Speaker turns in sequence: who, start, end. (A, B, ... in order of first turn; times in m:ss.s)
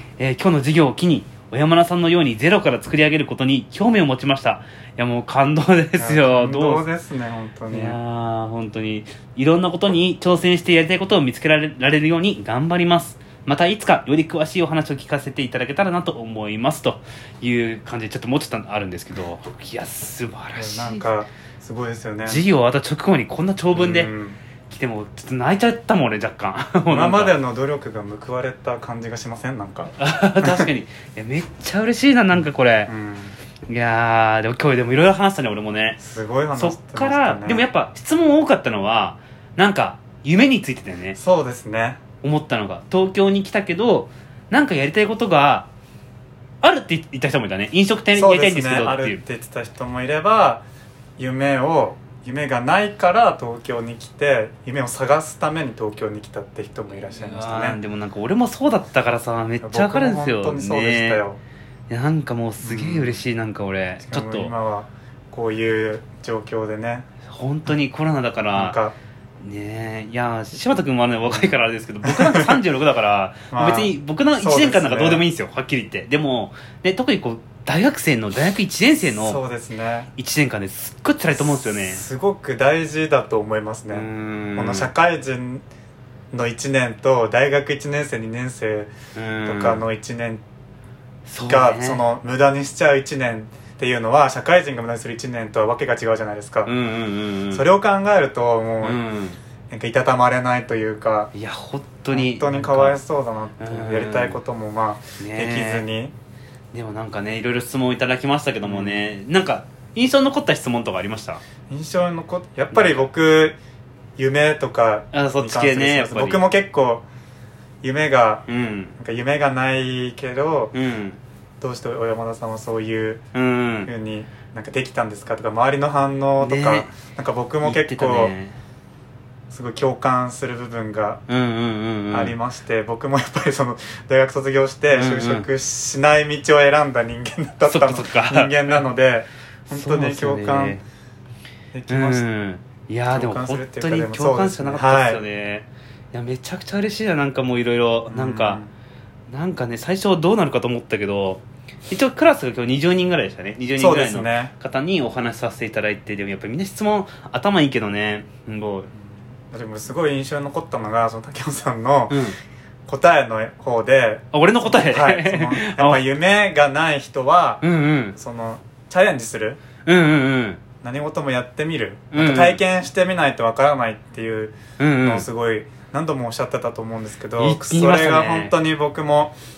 0:00.2-0:06.8 A
0:06.0-0:08.0 B
0:07.7-0:21.1 A
0:20.5-0:22.4 B
0:22.2-0:24.1 A
0:23.7-0:24.4 B
0:24.7-0:27.4 A
0:26.9-0:30.7 B
0:29.9-0:32.9 A
0:32.9-0:33.3 B
0:33.7-0:36.0 A
0:36.0-0:37.7 B
0:36.5-0:41.2 A
0:41.2-0:42.0 B
0:42.2-0:45.7 A
0:46.6-0:49.2 A
0:48.1-0:50.6 B
0:51.2-0:57.8 B
0:57.0-1:01.2 A
0:59.6-1:01.4 B
1:01.9-1:04.5 A
1:02.6-1:03.2 B
1:04.0-1:07.1 B
1:07.3-1:08.8 A
1:08.5-1:09.0 B
1:09.4-1:19.4 A
1:12.0-1:12.6 B
1:13.5-1:15.2 B
1:19.2-1:20.1 B
1:20.1-1:22.0 A
1:21.4-1:25.6 B
1:23.9-1:24.9 A
1:26.3-1:28.9 B
1:29.1-1:29.8 A
1:29.4-1:30.4 B
1:31.2-1:32.0 A
1:31.4-1:36.7 B
1:36.6-1:37.6 A
1:37.5-1:39.0 B
1:38.8-1:39.4 A
1:39.7-1:41.3 B
1:41.3-1:43.0 A
1:42.1-1:46.1 B
1:43.6-1:44.4 A
1:45.2-1:45.8 A
1:46.7-1:51.4 A
1:48.6-1:49.0 B
1:51.7-1:53.6 B
1:52.7-1:53.1 A
1:54.2-1:57.0 B
1:55.1-1:56.4 A
1:57.8-1:58.4 B
1:58.5-1:59.0 A
1:59.0-2:00.7 B
2:00.7-2:01.2 A
2:01.6-2:03.2 B
2:03.3-2:03.9 A
2:03.8-2:08.3 B
2:06.4-2:06.9 A
2:07.6-2:08.6 A
2:09.5-2:11.2 B
2:11.3-2:12.4 A
2:12.1-2:20.8 B
2:14.9-2:15.5 A
2:17.6-2:18.8 A
2:19.7-2:20.8 A
2:21.7-2:22.2 B
2:21.9-2:28.6 A
2:23.1-2:25.2 B
2:28.1-2:28.7 B
2:29.3-2:38.9 A
2:33.8-2:34.5 B
2:39.5-2:42.2 B
2:42.1-2:42.4 A
2:42.9-2:47.6 B
2:44.3-2:46.0 A
2:47.6-2:48.2 A
2:48.1-2:49.6 B
2:49.8-2:50.6 A
2:50.8-2:59.3 B
2:52.1-2:52.6 A
2:54.8-2:55.2 A
2:57.4-2:58.5 A